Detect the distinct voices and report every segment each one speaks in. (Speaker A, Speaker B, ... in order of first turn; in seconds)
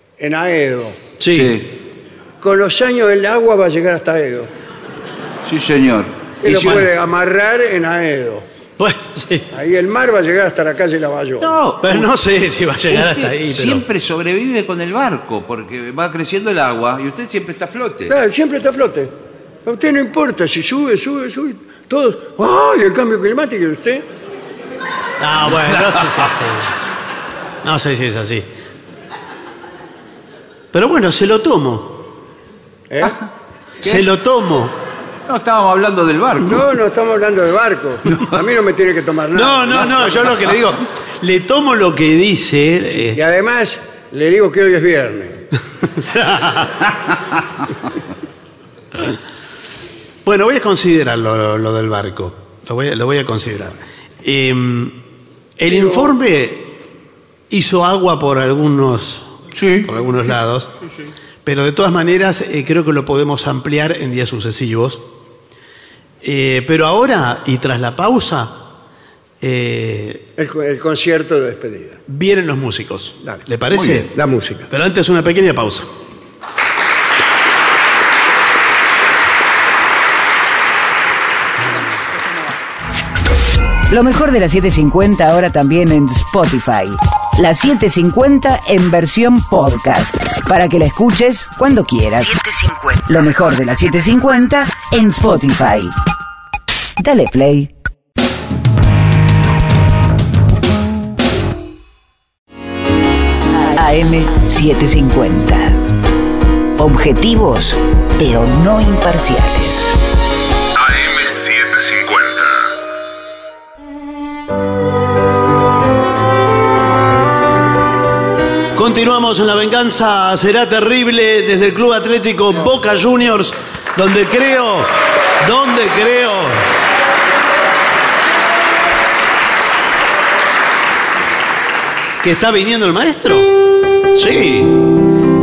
Speaker A: 0.2-1.0, 2.4-4.5, 6.4-8.4, 9.5-11.5, 18.1-19.1, 19.6-24.0, 32.9-33.2, 36.5-40.3, 43.1-45.4, 70.4-72.0, 74.1-74.7
Speaker B: 1.2-1.6, 8.8-9.5, 11.8-13.8, 25.2-26.7, 27.6-28.4, 30.7-32.0, 33.8-34.7, 39.3-43.2, 45.9-46.8, 50.2-55.0, 55.6-56.8, 57.5-59.3, 59.8-60.7, 61.4-65.0, 66.2-68.6, 69.4-70.2, 72.1-74.1, 74.7-75.9, 118.7-126.7, 132.2-133.5, 134.1-134.8
Speaker C: 1.3-1.7, 5.5-6.9, 11.4-12.1, 12.9-18.1, 25.6-26.1, 35.3-36.6, 59.5-59.9, 73.7-74.0
Speaker D: 83.9-95.9, 97.0-97.7, 103.6-105.8, 106.8-110.0
Speaker E: 110.8-112.7